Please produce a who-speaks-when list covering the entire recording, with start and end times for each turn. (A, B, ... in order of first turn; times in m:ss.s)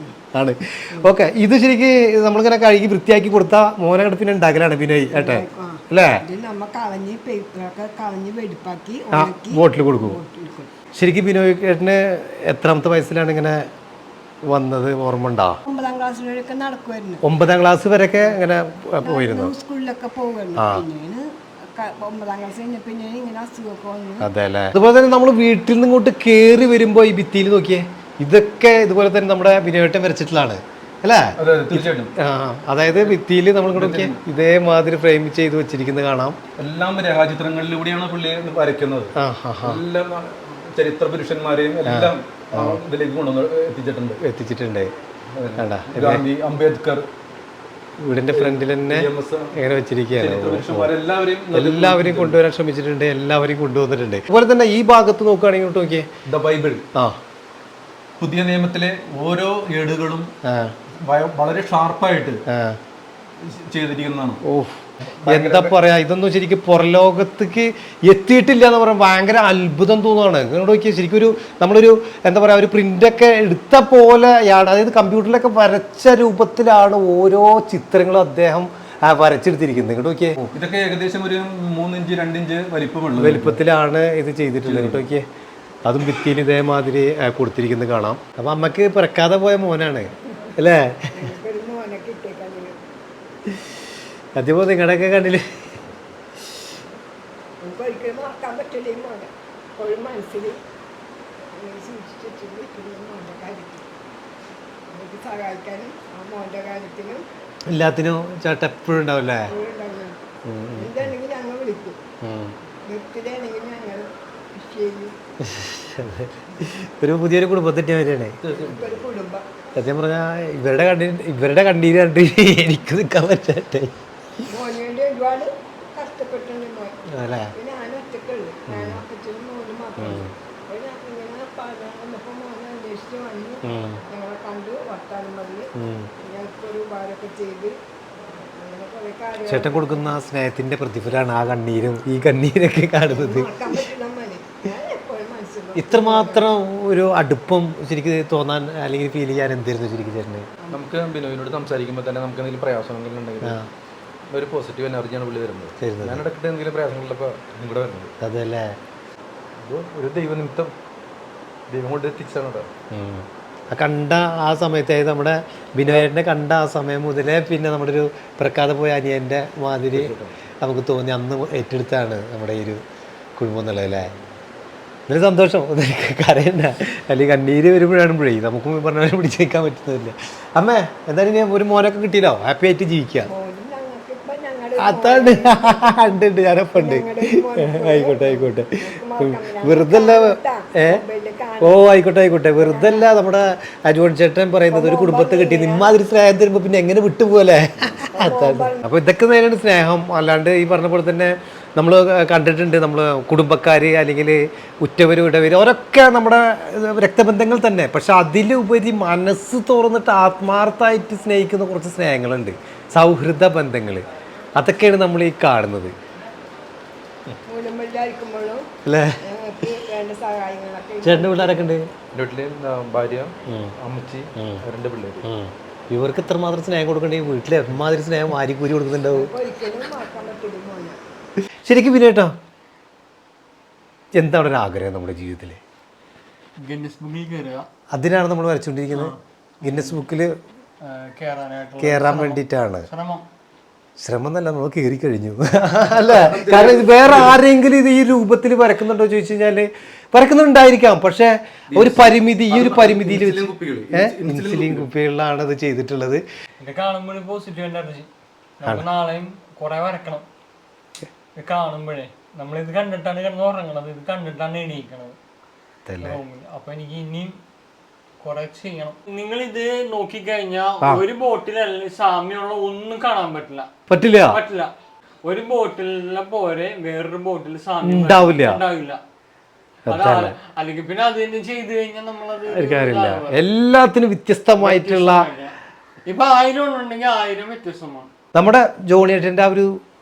0:00.3-0:06.2 A
0:05.1-0:10.7 B
0:09.1-0:10.2 A
0:10.9-0:13.6 A
0:14.5-0:15.6 A
0:15.7-0:17.2 B
0:17.2-0:19.5 A
0:19.0-0:24.3 B
0:20.6-0:20.9 A
0:24.2-0:36.4 A
0:31.4-0:32.1 C
0:32.9-0:33.2 C
0:33.7-0:34.2 C
0:36.6-0:44.2 C
0:39.2-0:39.8 A
0:41.9-0:42.8 A
0:44.2-0:44.9 A
0:45.4-0:47.1 C
0:45.6-0:46.2 A
0:48.0-0:50.9 A
0:48.3-0:49.6 C
0:50.2-0:52.4 C
0:51.5-0:56.1 A
0:56.3-0:56.8 C
0:58.2-1:00.3 C
1:00.5-1:00.8 A
1:01.0-1:02.4 C
1:02.5-1:02.8 A
1:03.4-1:04.4 C
1:04.4-1:20.5 A
1:05.2-1:05.8 C
1:20.5-1:23.6 C
1:23.2-1:25.2 A
1:24.6-1:25.1 C
1:25.8-1:31.2 A
1:31.1-1:32.8 B
1:34.4-1:35.8 A
1:37.6-1:40.6 B
1:41.5-1:43.9 B
1:44.9-1:47.2 B
1:47.7-1:49.5 A
1:49.5-1:50.2 B
1:50.5-1:51.1 A
1:50.8-1:52.0 B
1:52.2-1:52.6 A
1:52.8-1:55.2 B
1:55.4-1:58.4 A
1:58.4-1:59.1 C
1:58.5-1:59.4 B
1:59.8-2:03.9 A
2:04.5-2:07.0 B
2:07.1-2:07.5 A
2:07.5-2:17.7 B
2:08.7-2:09.0 A
2:10.0-2:10.3 A
2:13.6-2:14.0 A
2:15.8-2:16.1 A
2:18.6-2:20.2 B
2:19.4-2:23.9 A
2:23.1-2:26.4 B
2:25.8-2:30.5 A
2:30.7-2:33.6 C
2:33.4-2:33.7 A
2:34.3-2:38.1 C
2:35.8-2:36.2 A
2:38.2-2:38.8 A
2:39.6-2:40.7 C
2:41.7-2:42.7 C
2:42.9-2:52.8 A
2:49.9-2:50.3 C
2:53.4-2:54.1 A
2:55.1-3:03.3 A
3:03.2-3:06.2 B
3:04.8-3:11.0 A
3:06.7-3:11.9 B
3:11.6-3:35.9 A
3:12.6-3:13.1 B
3:14.7-3:16.0 B
3:18.1-3:18.8 B
3:37.5-3:38.7 B
3:38.8-3:39.2 A
3:39.2-3:41.7 B
3:41.0-3:41.9 A
3:42.1-3:45.2 C
3:43.5-3:43.7 A
3:44.4-3:44.6 A
3:45.2-3:49.3 A
3:49.1-3:51.0 B
3:51.6-3:52.3 A
3:54.2-3:55.6 A
3:56.6-3:57.7 D
3:57.9-4:00.3 A
3:58.9-4:00.0 D
4:00.8-4:03.2 D
4:01.8-4:02.9 A
4:04.0-4:16.2 A
4:05.9-4:07.4 C
4:11.7-4:14.9 C
4:16.6-4:18.1 D
4:18.6-4:20.2 D
4:21.4-4:25.2 D
4:25.9-4:26.2 A
4:26.0-4:27.4 D
4:28.2-4:33.7 D
4:33.9-4:34.4 A
4:34.3-4:34.7 D
4:35.2-4:39.0 D
4:37.8-4:38.6 A
4:39.9-4:40.4 A
4:39.9-4:43.4 D
4:42.5-4:45.3 A
4:44.6-4:45.6 D
4:46.1-4:48.1 D
4:48.3-4:49.8 A